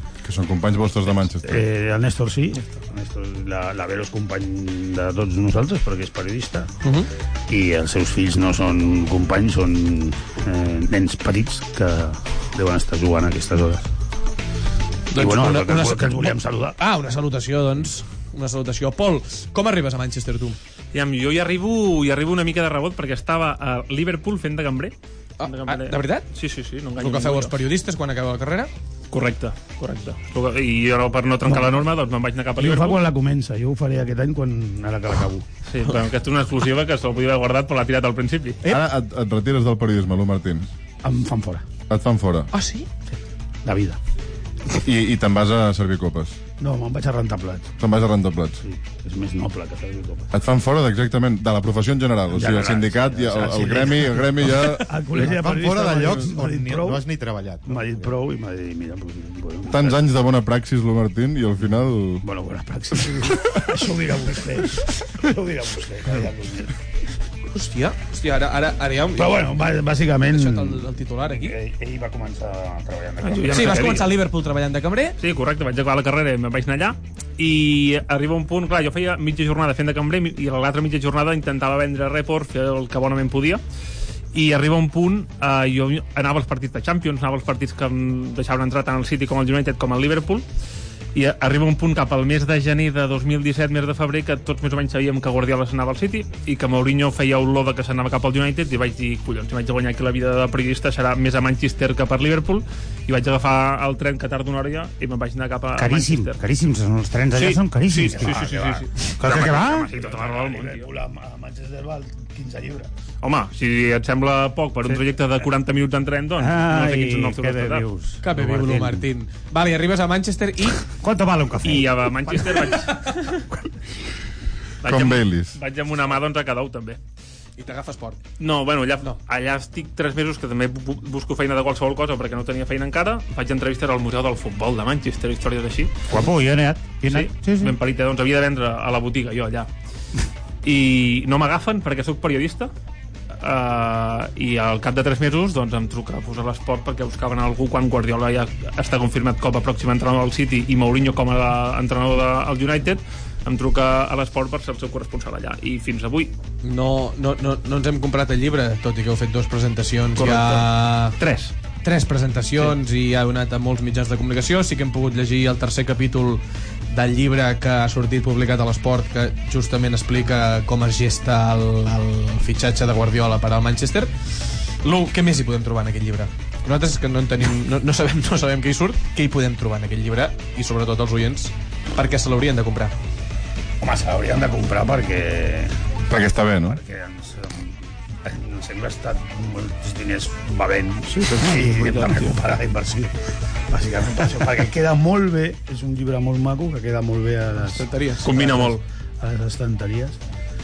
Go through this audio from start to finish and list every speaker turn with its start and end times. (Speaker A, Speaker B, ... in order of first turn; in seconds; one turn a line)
Speaker A: 0.2-1.6
Speaker B: 1.4-6.7
Speaker C: 6.8-7.1
Speaker B: 7.5-13.9
Speaker C: 15.1-20.6
Speaker B: 15.1-16.8
Speaker D: 20.9-27.5
Speaker C: 25.4-26.3
Speaker C: 27.0-28.7
Speaker D: 29.1-33.0
Speaker B: 31.4-31.8
Speaker B: 32.6-35.4
Speaker D: 35.7-38.6
Speaker A: 38.6-40.7
Speaker B: 41.0-41.6
Speaker A: 41.9-42.5
Speaker C: 42.5-42.9
Speaker B: 43.6-44.0
Speaker A: 44.8-46.4
Speaker B: 46.6-47.7
Speaker A: 47.8-48.6
Speaker B: 48.6-50.3
Speaker A: 50.3-55.0
Speaker B: 52.3-57.0
Speaker E: 55.1-58.1
Speaker B: 57.6-60.1
Speaker A: 59.7-62.2
Speaker B: 62.2-66.7
Speaker C: 67.5-69.5
Speaker B: 69.2-73.8
Speaker C: 70.3-71.6
Speaker D: 73.2-74.1
Speaker C: 73.5-75.2
Speaker D: 75.2-83.6
Speaker D: 84.3-90.4
Speaker D: 91.1-106.4
Speaker F: 105.8-109.9
Speaker D: 107.3-110.9
Speaker B: 108.0-108.8
Speaker B: 109.9-112.9
Speaker D: 113.2-117.9
Speaker F: 116.4-119.0
Speaker C: 118.2-120.8
Speaker F: 121.0-122.3
Speaker D: 121.6-123.4
Speaker D: 124.8-127.0
Speaker A: 124.8-125.6
Speaker C: 127.6-128.2
Speaker D: 128.4-135.9
Speaker F: 136.1-137.8
Speaker D: 137.1-139.7
Speaker D: 140.6-142.7
Speaker D: 143.3-156.3
Speaker C: 156.6-161.2
Speaker D: 160.2-161.5
Speaker C: 161.8-174.1
Speaker C: 174.8-182.9
Speaker B: 183.8-185.7
Speaker A: 186.1-186.8
Speaker B: 186.6-193.2
Speaker C: 191.8-192.1
Speaker B: 193.7-200.2
Speaker C: 197.6-198.3
Speaker D: 198.2-198.8